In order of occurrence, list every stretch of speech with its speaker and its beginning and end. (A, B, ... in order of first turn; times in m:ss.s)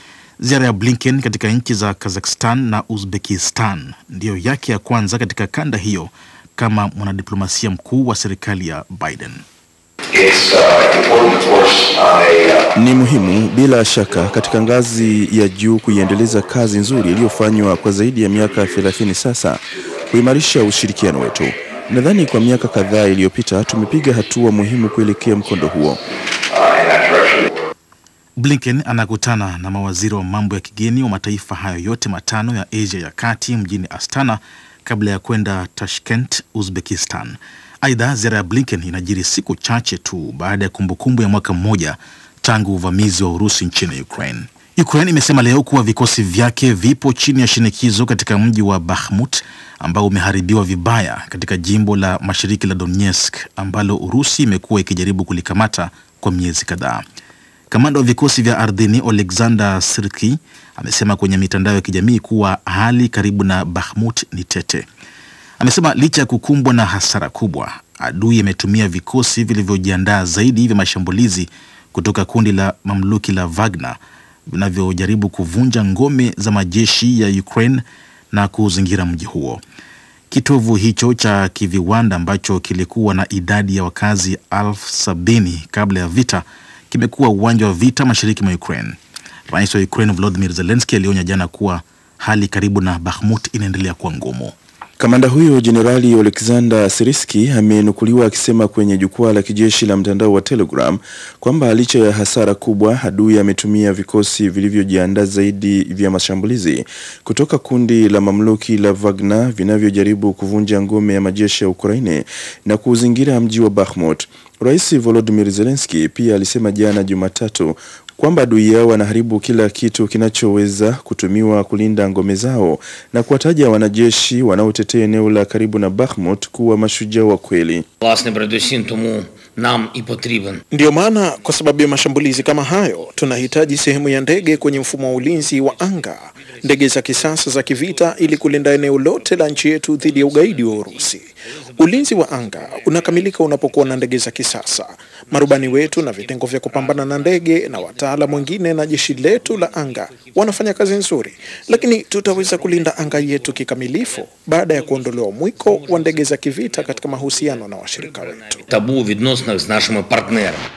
0:00.4-0:09.4 A
0:10.2-0:12.7 B
0:12.7-0:26.0 C
0:26.5-0:27.6 B
0:28.4-0:57.0 A
0:57.7-1:04.8 A
1:05.6-1:19.6 A
1:20.3-1:29.0 A
1:29.5-1:34.5 A
1:35.0-2:07.8 C
2:08.0-2:10.6 D
2:10.7-2:38.6 E
2:14.7-2:21.1 D
2:21.7-2:24.3 D
2:25.3-2:30.7 D
2:31.7-2:40.7 D